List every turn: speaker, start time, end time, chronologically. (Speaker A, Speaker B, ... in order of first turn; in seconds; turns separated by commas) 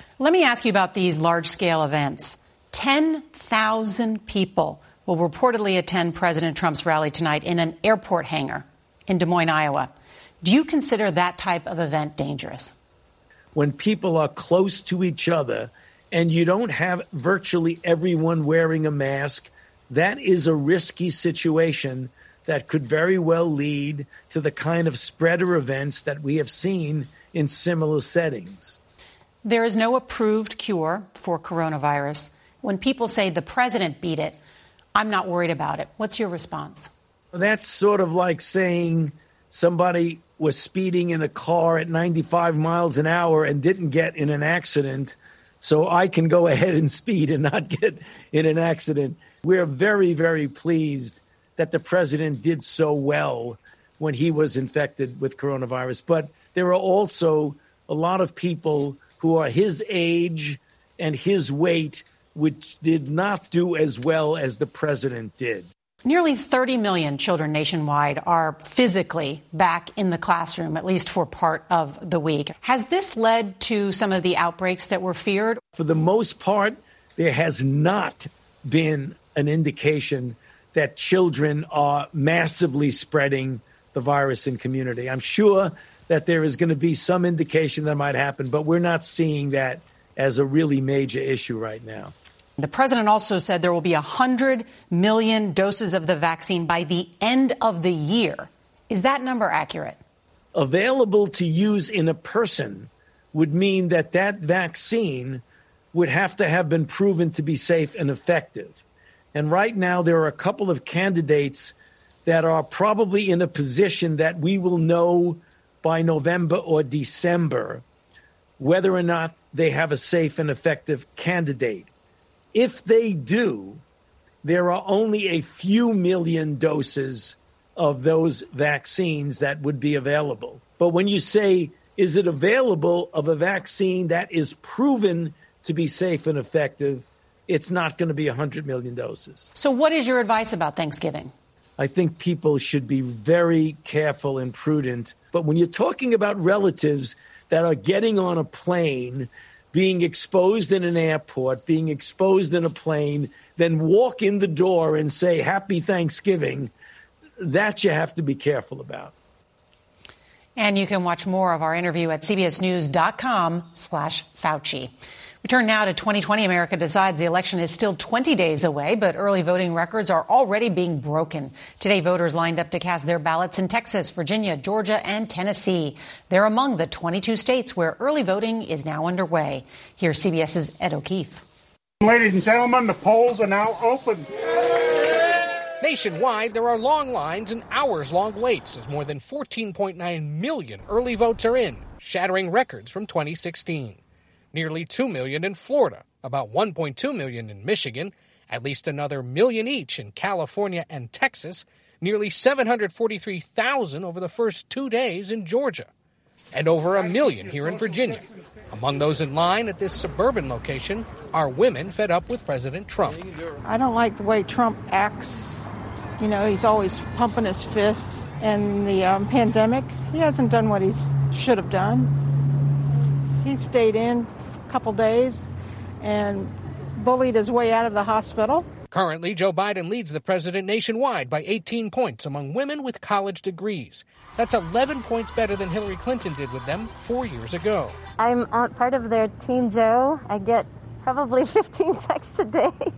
Speaker A: 0.2-12.8, Speaker B: 13.6-28.8, Speaker A: 29.4-34.4, Speaker A: 35.0-36.9, Speaker B: 37.3-65.7, Speaker A: 66.0-75.6, Speaker B: 75.8-92.1, Speaker A: 92.6-100.0, Speaker B: 100.5-108.8, Speaker B: 109.3-111.7, Speaker B: 112.3-117.8, Speaker B: 118.6-121.9, Speaker B: 122.5-123.8, Speaker B: 124.4-139.5, Speaker A: 139.6-141.3, Speaker B: 141.8-156.7, Speaker B: 157.4-159.1, Speaker A: 160.6-164.9, Speaker A: 165.4-181.4, Speaker C: 182.1-184.2, Speaker D: 185.8-194.0, Speaker D: 194.5-205.9, Speaker D: 206.5-213.2, Speaker E: 213.7-215.6, Speaker E: 216.2-222.1, Speaker E: 223.4-225.5, Speaker E: 226.0-228.7, Speaker D: 228.9-238.0, Speaker F: 238.2-242.8